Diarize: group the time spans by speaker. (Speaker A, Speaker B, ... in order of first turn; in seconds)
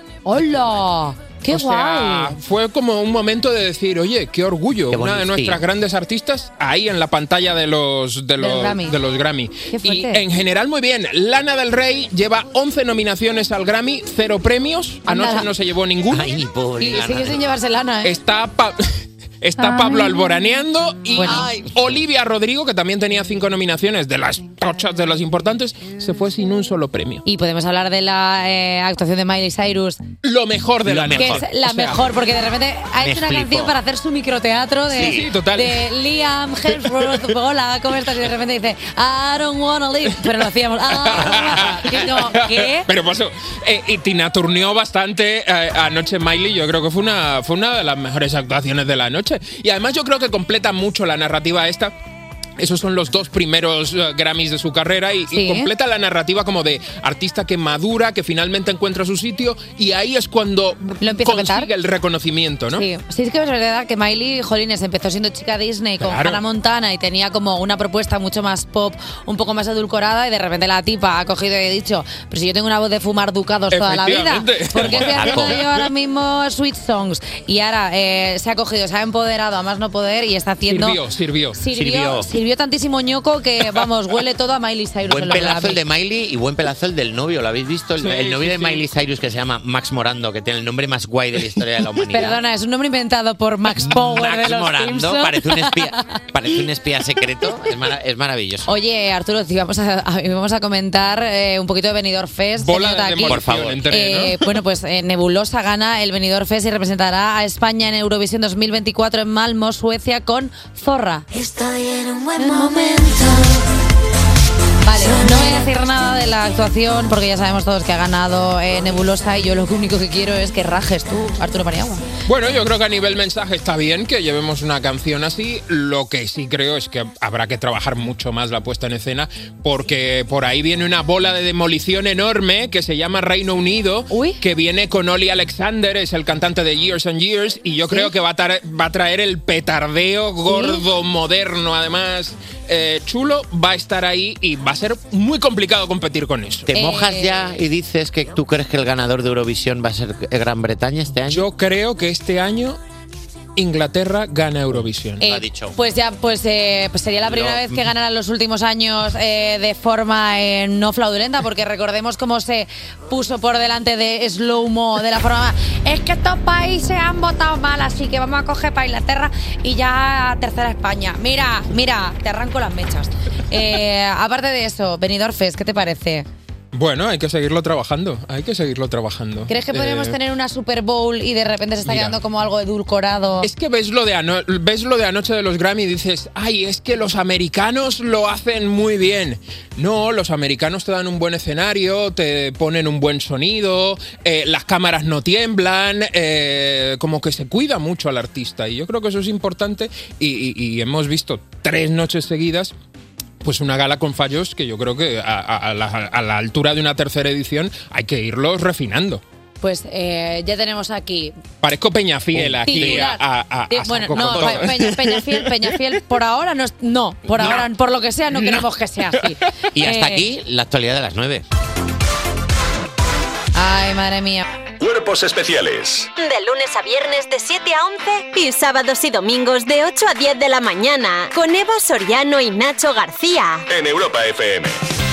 Speaker A: 0.2-2.4, 8.4-9.0, 9.7-10.2, 15.1-15.5, 16.8-18.1, 19.6-20.2, 21.1-21.5, 27.2-30.0, 31.1-42.9, 55.3-55.7, 61.0-61.7, 62.7-81.0, 81.5-85.8, 92.1-96.0, 98.7-111.2, 112.4-113.0, 114.8-122.0, 134.1-134.4, 140.4-140.8, 146.7-147.4, 155.2-176.3, 179.5-183.5, 209.6-211.3, 212.6-220.2, 223.5-224.4
Speaker B: 1.5-16.3, 18.0-18.8, 19.4-27.2, 30.2-32.0, 35.0-35.8, 41.0-51.9, 52.6-62.8, 66.0-66.4, 73.7-75.8, 80.6-81.6, 88.0-88.8, 102.6-104.4, 122.3-146.7, 151.3-152.8, 153.6-155.2, 176.7-180.2, 181.8-182.2, 183.4-202.7, 203.4-209.2, 211.6-215.5
Speaker C: 4.9-5.6, 16.1-17.4, 21.2-22.0, 30.9-31.4, 33.0-33.7, 34.9-35.3, 41.3-41.8, 74.8-75.6, 81.7-82.2, 85.0-92.4, 93.8-98.7, 103.2-103.8, 146.7-151.5, 154.7-155.8, 157.3-157.8, 212.3-213.1, 214.1-214.8, 217.4-217.6, 219.7-221.4
Speaker D: 111.3-113.6, 114.9-115.7
Speaker E: 224.8-226.1, 233.7-234.8
Speaker F: 226.2-233.6